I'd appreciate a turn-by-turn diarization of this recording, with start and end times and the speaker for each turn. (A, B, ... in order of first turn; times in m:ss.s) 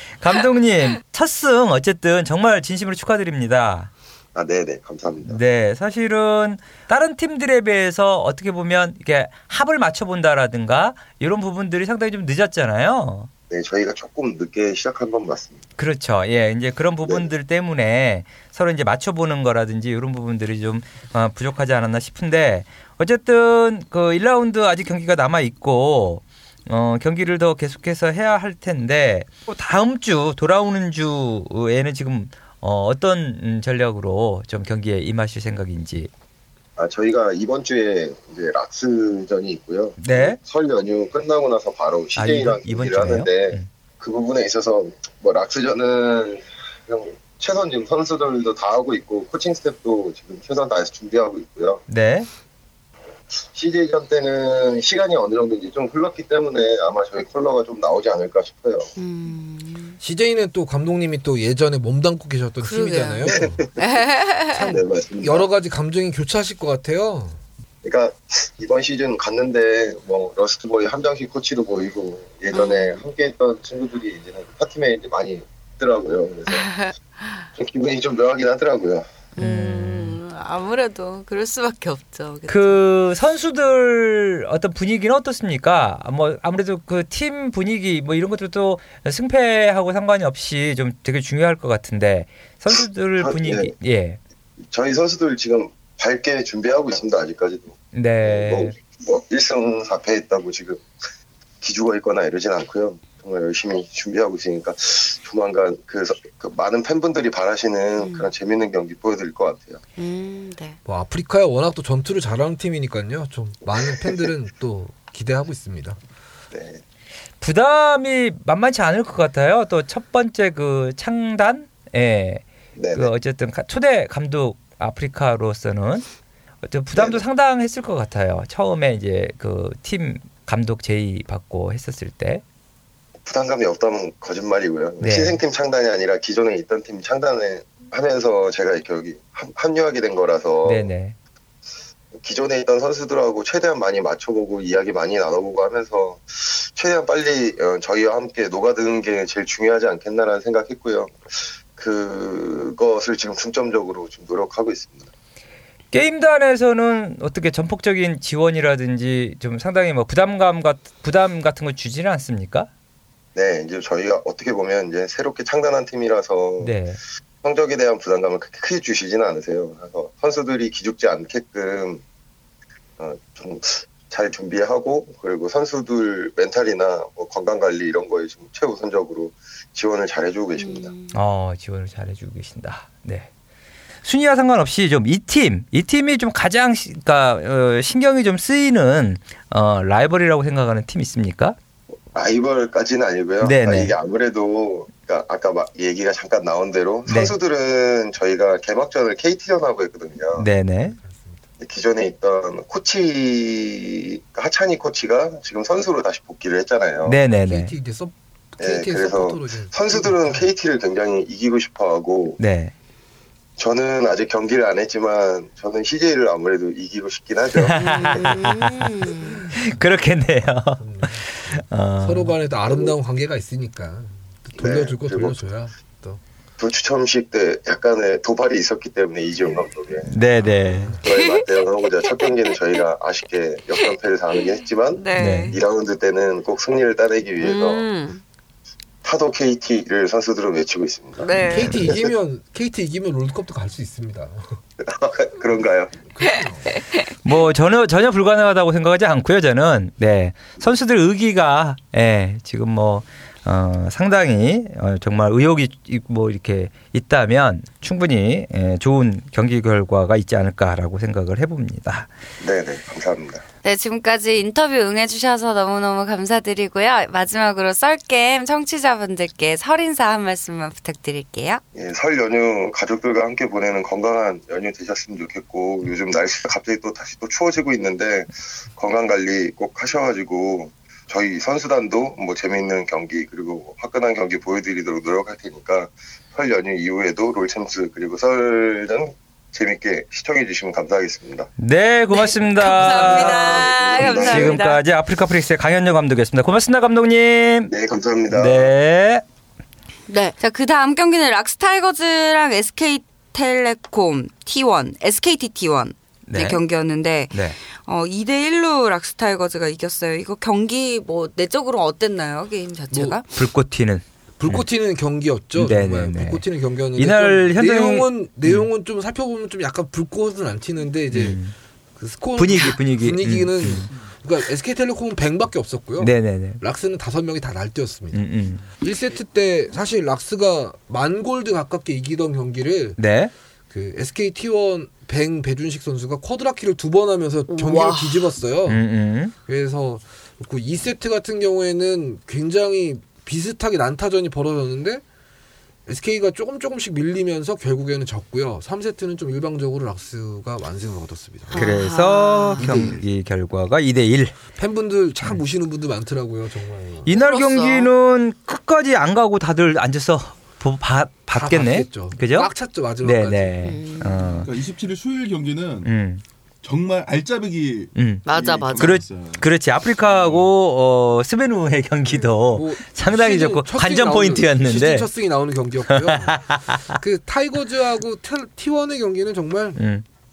0:00.2-0:03.9 A
0:04.3-0:05.4 B
0:05.3-0:13.3 A
0:13.5-0:15.6 B
0:15.8-0:36.1 A
0:36.8-0:51.8 B
0:40.0-0:40.4 A
0:42.2-0:43.7 A
0:51.9-0:52.3 A
0:53.5-0:58.9 B
0:59.0-1:00.0 C
1:00.0-1:03.6 D
1:02.6-1:04.7 C
1:03.3-1:03.9 B
1:04.5-1:07.4 D
1:04.6-1:05.4 B
1:07.8-1:16.7 B
1:12.5-1:13.0 C
1:16.5-1:17.4 C
1:17.6-1:19.1 B
1:19.4-1:22.8 C
1:19.4-1:20.2 A
1:22.5-1:34.2 A
1:33.2-1:33.7 B
1:34.6-1:40.8 B
1:37.9-1:38.7 A
1:41.6-1:49.8 B
1:48.0-1:48.3 C
1:50.0-1:50.8 C
1:50.8-1:56.0 D
1:56.5-1:56.8 B
1:57.4-2:06.0 A
2:02.8-2:03.1 B
2:06.6-2:12.4 A
2:06.9-2:07.2 B
2:13.2-2:20.9 B
2:15.0-2:15.4 A
2:20.6-2:21.2 A
2:22.1-2:35.1 B
2:35.9-2:42.7 A
2:43.3-2:46.7 B
2:46.6-2:47.0 A
2:47.4-2:52.0 B
2:53.0-3:00.9 B
3:00.6-3:01.2 C
3:01.1-3:03.3 A
3:04.0-3:11.6 A
3:12.1-3:20.5 B
3:13.4-3:13.9 A
3:17.1-3:17.4 A
3:20.4-3:21.0 A
3:20.8-3:21.4 D
3:21.6-3:27.2 B
3:27.0-3:27.7 A
3:27.4-3:30.5 D
3:28.6-3:32.4 B
3:32.4-3:32.7 A
3:33.6-3:38.4 B
3:37.5-3:42.3 A
3:37.8-3:39.4 C
3:40.8-3:46.2 D
3:44.6-3:45.4 B
3:46.6-3:50.2 B
3:50.0-3:51.0 A
3:50.6-3:51.0 D
3:51.0-3:57.8 B
3:51.0-3:52.8 C
3:53.8-3:55.6 C
3:55.1-3:55.6 A
3:57.4-3:58.2 C
3:59.0-4:02.1 B
4:01.2-4:01.9 C
4:01.4-4:04.6 D
4:04.8-4:06.0 B
4:06.1-4:06.8 D
4:06.7-4:07.1 C
4:07.2-4:22.1 A
4:22.4-4:23.4 B
4:23.6-4:31.6 C
4:31.7-4:51.5 B
4:51.6-4:57.7 A
4:52.1-4:54.8 C
4:52.8-4:54.6 B
4:57.7-4:58.7 B
4:58.3-4:59.2 A
5:00.1-5:13.3 C
5:06.3-5:06.6 A
5:07.3-5:07.6 A
5:12.9-5:13.2 D
5:13.4-5:14.6 A
5:14.4-5:21.4 D
5:15.5-5:18.7 A
5:21.1-5:21.5 A
5:22.0-5:28.2 D
5:22.4-5:23.9 A
5:26.0-5:26.6 A
5:28.1-5:28.6 A
5:28.8-5:33.0 D
5:33.0-5:33.3 A
5:33.7-5:38.8 D
5:37.5-5:38.3 C
5:38.7-5:39.3 A
5:39.4-5:45.0 D
5:45.9-5:51.8 D
5:51.5-5:53.0 C
5:51.5-5:54.4 A
5:52.6-5:53.0 D
5:54.5-5:57.1 D
5:57.0-6:02.5 A
5:57.1-5:57.9 C
6:01.3-6:03.6 D
6:03.0-6:04.5 A
6:03.6-6:04.4 C
6:04.4-6:05.9 E
6:05.8-6:06.2 A
6:06.6-6:09.5 E
6:07.9-6:08.2 A
6:08.2-6:09.0 C
6:08.8-6:15.1 A
6:10.1-6:10.5 E
6:12.2-6:19.8 D
6:15.9-6:17.0 A
6:19.8-6:20.0 A